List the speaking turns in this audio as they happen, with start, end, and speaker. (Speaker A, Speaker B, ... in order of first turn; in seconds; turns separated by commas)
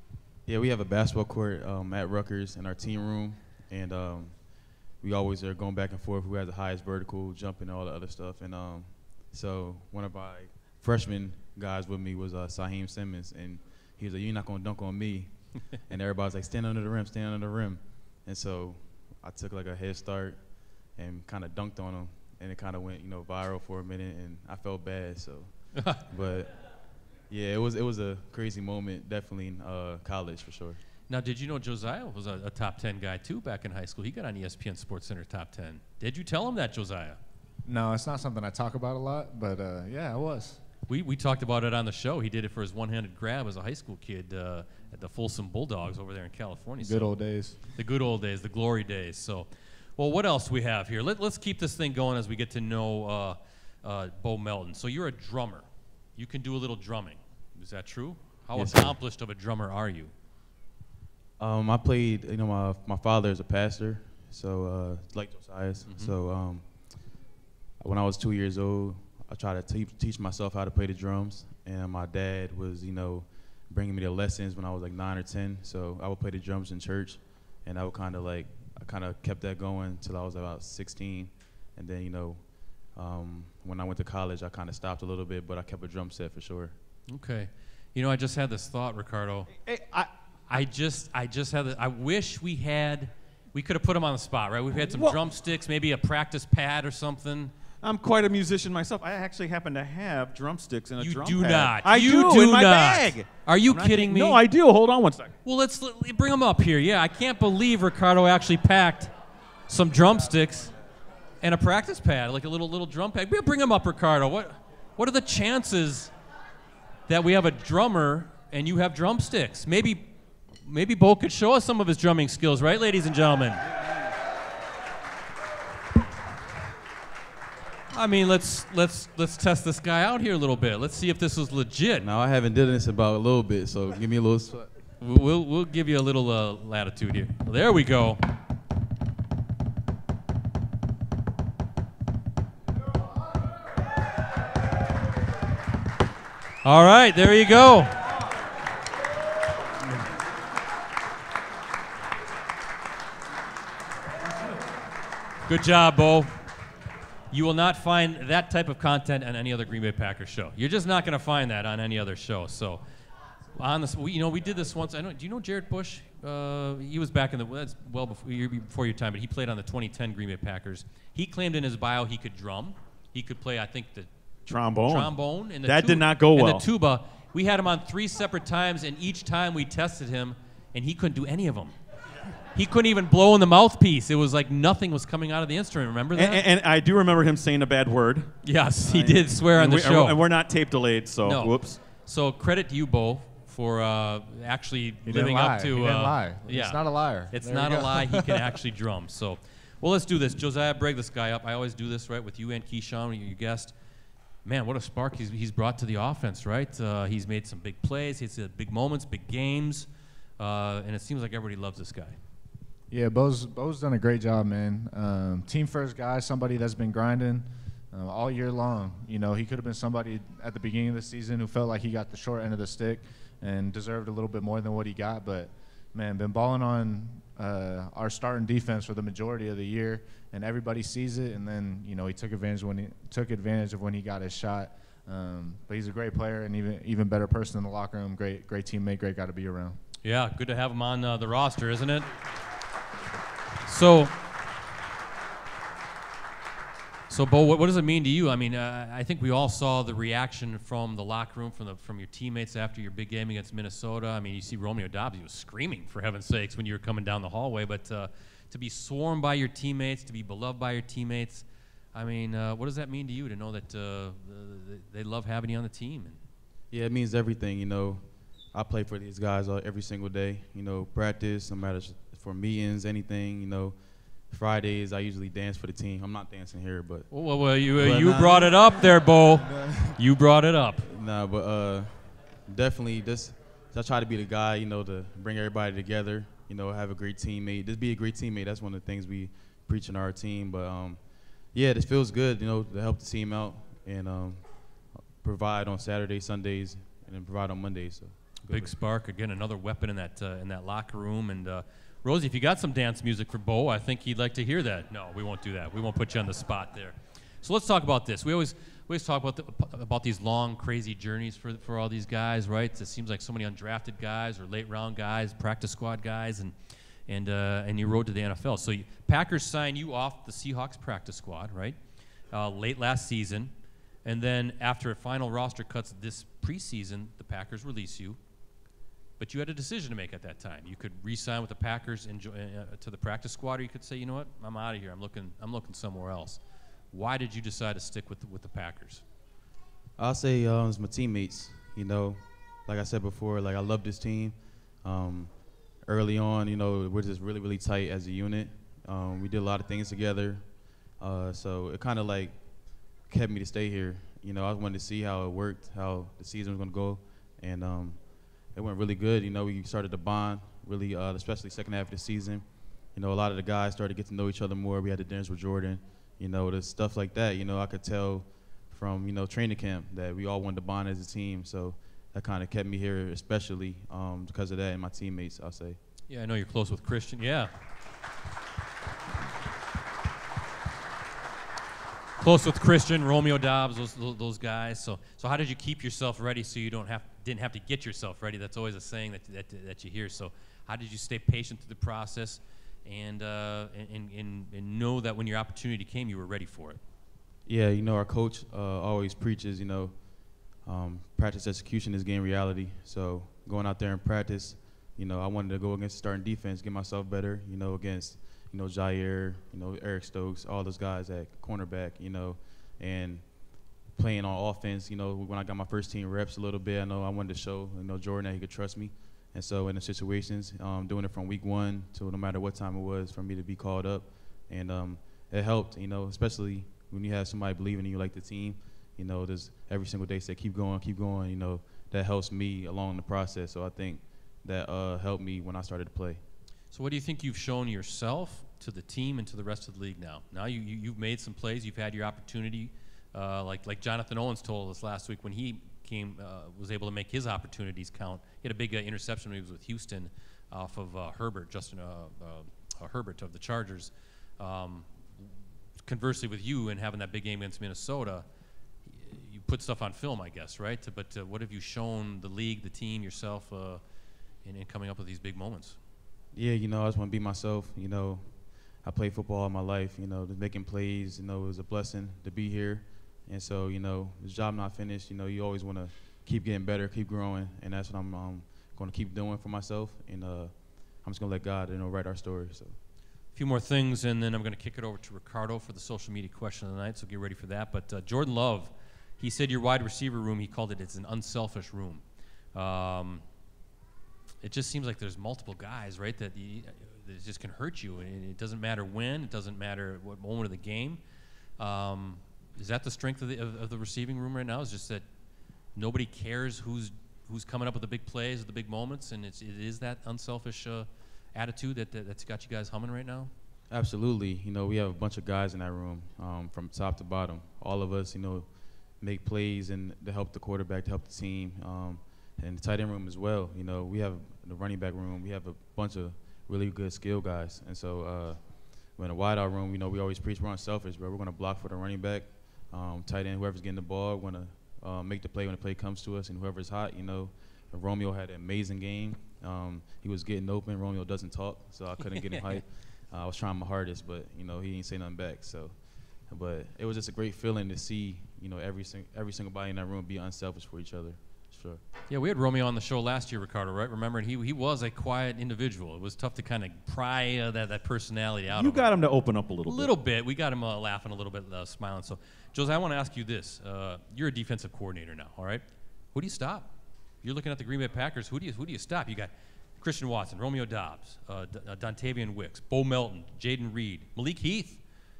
Speaker A: 0.4-30.8, Speaker B: 31.1-37.2, Speaker C: 37.6-40.6, Speaker B: 40.9-60.1, Speaker C: 46.8-47.6, Speaker A: 58.5-58.9, Speaker A: 61.4-67.2, Speaker B: 65.8-66.1, Speaker A: 67.8-86.7, Speaker B: 87.1-89.5, Speaker D: 89.7-90.1, Speaker B: 90.5-97.5, Speaker D: 94.8-95.2, Speaker D: 97.8-105.3, Speaker B: 101.0-104.4, Speaker B: 105.4-109.1, Speaker B: 109.7-110.7, Speaker B: 111.4-116.1, Speaker B: 117.1-123.6, Speaker B: 127.9-132.1, Speaker A: 132.0-134.7, Speaker B: 135.0-138.2, Speaker B: 146.6-148.0, Speaker B: 155.4-156.3, Speaker B: 157.3-162.8, Speaker B: 163.5-174.1, Speaker D: 174.4-176.6, Speaker B: 174.8-181.7, Speaker B: 182.5-186.4, Speaker D: 186.1-191.8, Speaker B: 188.4-190.2, Speaker B: 191.2-203.7, Speaker C: 195.0-198.4, Speaker B: 204.4-212.2, Speaker C: 212.9-239.8, Speaker B: 240.0-242.1, Speaker B: 243.7-244.1, Speaker B: 247.1-266.2, Speaker A: 266.7-280.0, Speaker B: 277.1-280.9, Speaker A: 280.8-298.7, Speaker B: 298.5-316.5, Speaker B: 317.1-321.8, Speaker B: 322.3-323.5, Speaker B: 324.0-328.2, Speaker B: 329.2-336.4, Speaker B: 336.9-339.0, Speaker A: 340.0-375.8, Speaker B: 376.1-377.5, Speaker B: 382.2-396.8, Speaker A: 397.4-436.2, Speaker B: 436.7-454.9, Speaker B: 455.8-458.2, Speaker B: 458.9-463.8, Speaker B: 464.4-465.8, Speaker A: 466.3-482.8, Speaker B: 483.3-492.0, Speaker B: 492.5-493.2, Speaker B: 494.4-501.0, Speaker B: 501.6-505.0, Speaker B: 505.7-513.3, Speaker A: 513.7-551.8, Speaker B: 542.3-542.6, Speaker B: 552.1-558.9, Speaker D: 558.5-559.9, Speaker B: 559.6-566.7, Speaker B: 567.2-574.8